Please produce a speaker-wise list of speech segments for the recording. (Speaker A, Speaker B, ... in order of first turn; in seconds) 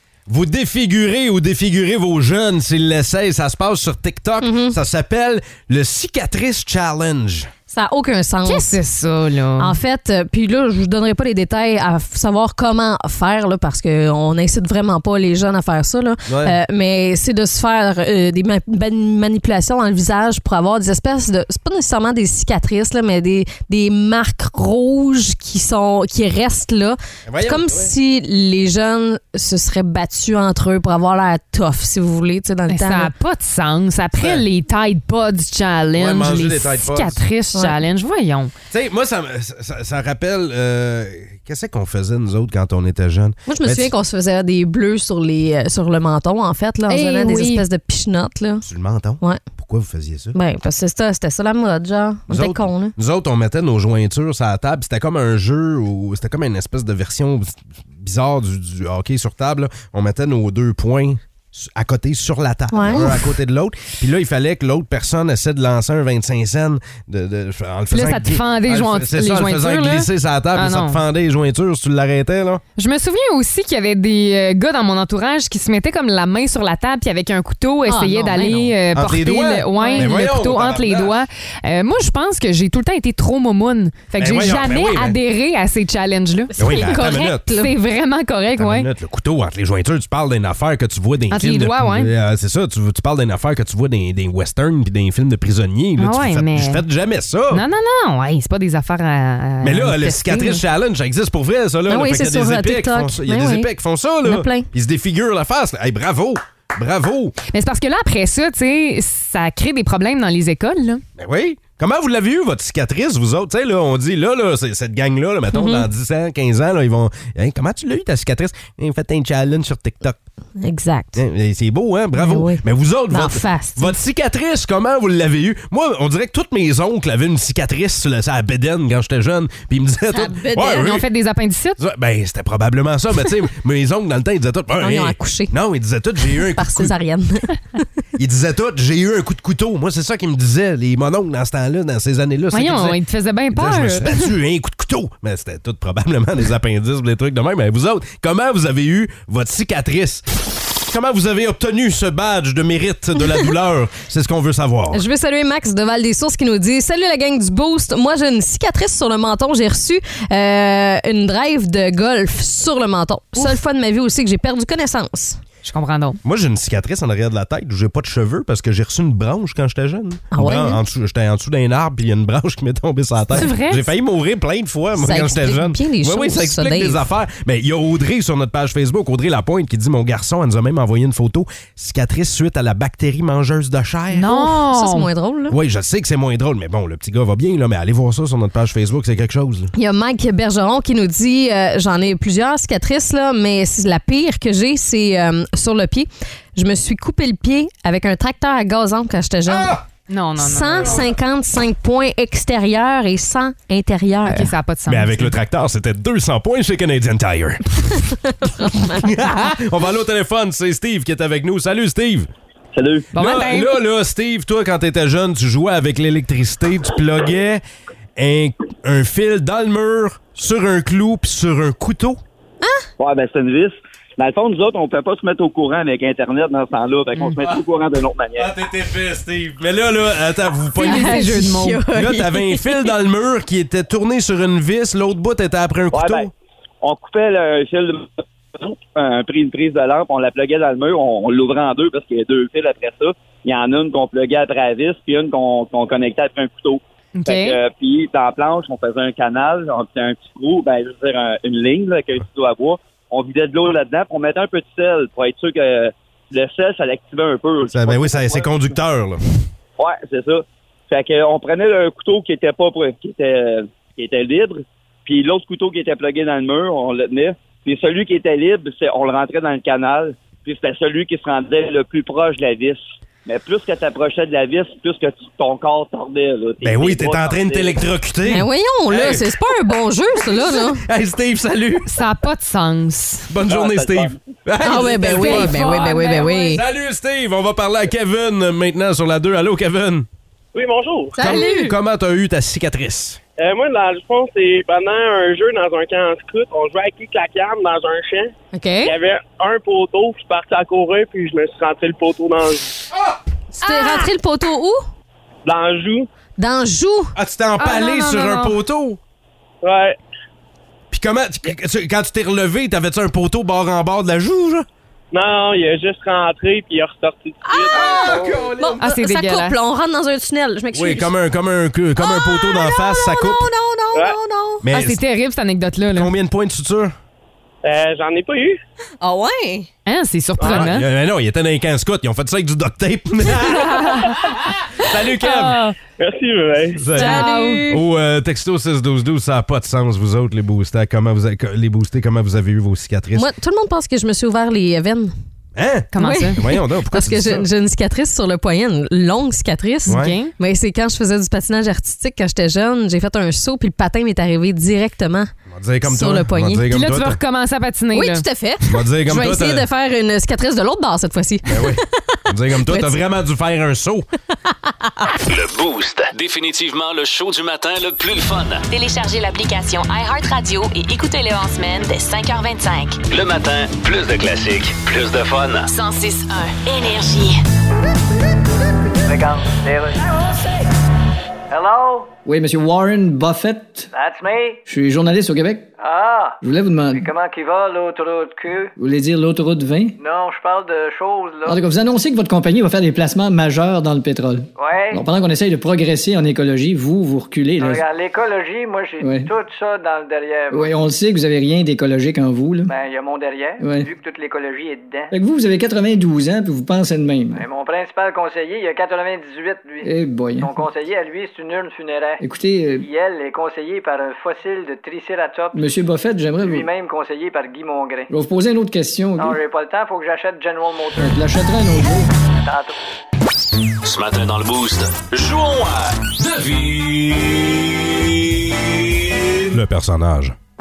Speaker A: 0.3-7.5, 16.3-16.6, 27.2-27.9, 34.2-34.4, 35.9-37.2, 38.7-43.9, 48.6-50.4, 52.3-72.6, 78.9-81.2, 84.2-85.2, 86.6-87.5, 88.6-97.6, 99.6-107.3, 111.2-120.2, 121.2-131.1, 131.8-136.9, 138.2-143.0, 143.5-150.2, 150.9-155.0, 166.2-184.3, 185.5-189.7, 199.5-199.8, 204.9-212.3, 213.2-217.6, 218.2-222.2, 228.3-231.2, 231.9-236.3, 257.7-259.2, 276.6-279.4, 280.5-281.9, 283.3-290.1, 291.2-293.2, 302.9-303.2, 307.1-309.0, 310.9-314.6, 317.7-318.8, 320.7-323.5, 324.6-325.0, 325.9-326.9, 330.5-335.6, 336.8-343.3, 345.6-347.4, 349.9-350.2, 355.5-357.2, 358.7-359.6, 361.5-364.1, 429.5-430.4
Speaker B: 4.4-4.8, 7.7-8.8, 9.6-33.1, 43.5-48.6, 49.2-49.5, 50.3-52.9, 62.7-63.3, 77.8-78.8, 79.8-80.2, 86.5-87.7, 101.9-103.7, 104.2-104.7, 115.5-115.9, 120.6-121.2, 122.1-124.0, 130.1-130.9, 134.8-135.6, 136.2-137.8, 154.9-165.4, 170.3-170.8, 174.9-177.1, 184.2-185.6, 189.7-199.8, 200.4-204.5, 208.4-209.1, 230.8-232.9, 278.2-280.8, 284.6-286.6, 291.1-291.7, 298.5-298.9, 303.6-304.8, 306.4-307.1, 317.4-321.1, 322.0-324.6, 329.0-329.7, 336.9-337.8, 343.1-345.1, 346.0-356.7, 357.9-363.0, 364.5-365.1
Speaker C: 8.4-9.8, 32.7-38.5, 46.9-47.6, 67.9-71.0, 72.8-88.9, 91.3-92.1, 96.0-96.8, 97.5-100.6, 107.5-111.0, 130.6-131.8, 142.5-144.3, 165.6-166.2, 173.3-173.8, 184.1-185.1, 200.1-201.0, 204.2-205.3, 213.1-213.8, 230.8-231.8, 247.2-247.6, 281.9-283.3, 284.7-286.4, 291.2-291.6, 303.7-304.0, 307.6-308.6, 318.8-319.5, 324.7-326.1, 329.9-330.9, 333.6-333.9, 335.2-335.7, 336.9-337.7, 345.9-346.4, 349.9-350.3, 356.7-358.2
Speaker D: 212.7-213.1, 223.0-228.5, 235.9-236.3, 236.8-258.6, 259.8-277.8, 283.5-284.2
Speaker E: 290.5-291.2, 293.4-298.3, 298.8-302.8, 305.4-306.1, 309.6-310.0, 315.1-318.4, 327.6-328.6, 330.4-330.7, 336.0-336.9
Speaker F: 365.2-368.6, 373.1-375.7, 423.8-429.4
Speaker G: 368.7-373.0, 375.7-377.4
Speaker H: 379.1-380.2, 381.5-382.1, 383.9-384.6, 385.8-386.4, 386.9-388.7, 390.0-391.6, 394.6-395.0, 397.6-400.7, 402.7-405.1, 407.3-412.2, 412.8-415.6, 416.4-418.1, 419.2-421.2, 422.4-422.7
Speaker I: 382.2-383.9, 384.7-385.7, 386.4-387.1, 388.8-389.9, 391.4-397.8, 399.0-399.3, 400.5-402.7, 403.6-403.9, 405.1-407.4, 409.8-410.5, 412.2-412.9, 415.5-416.7, 418.1-419.4, 421.0-422.1